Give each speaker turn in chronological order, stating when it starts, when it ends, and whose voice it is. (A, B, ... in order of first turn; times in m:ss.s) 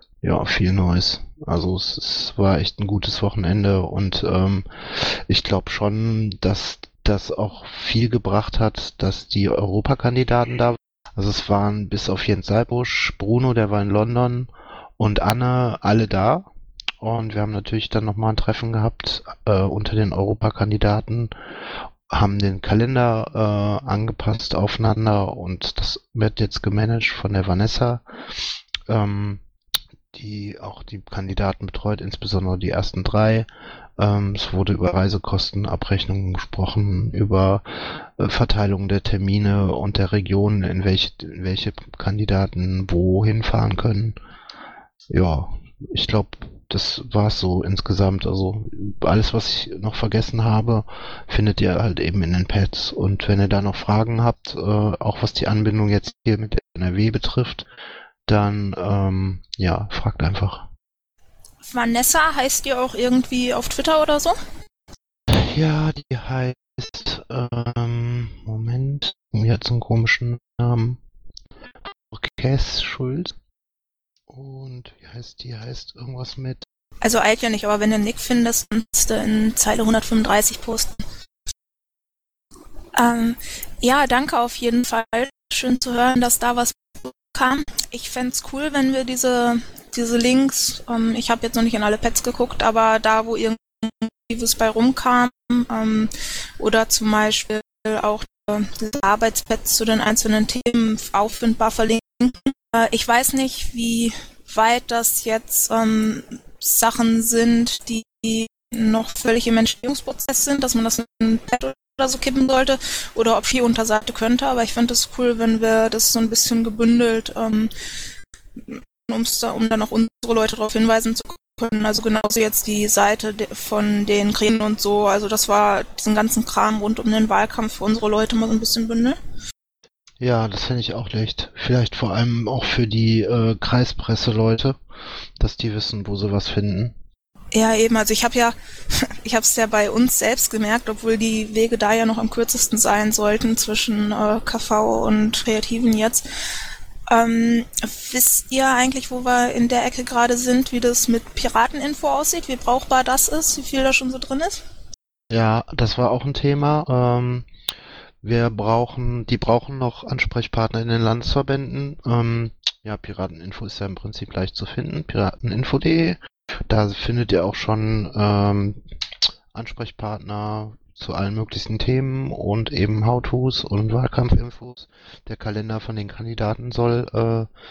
0:00.2-0:16.5 A
0:17.0-0:21.3 A
0:22.1-0:28.0 A
0:28.9-0:29.4 A
0:30.1-0:44.2 A
0:45.1-0:57.7 A
0:58.3-1:00.7 A
1:01.7-1:04.4 B
1:05.3-1:11.0 A
1:12.1-1:13.4 A
1:14.3-1:16.6 A
1:17.0-1:21.0 B
1:23.0-1:57.7 B
1:58.7-2:09.2 B
2:10.2-2:14.8 A
2:15.4-2:17.0 A
2:17.5-2:26.2 B
2:27.1-2:34.6 B
2:35.3-2:37.5 A
2:38.2-2:48.8 A
2:49.5-2:57.5 A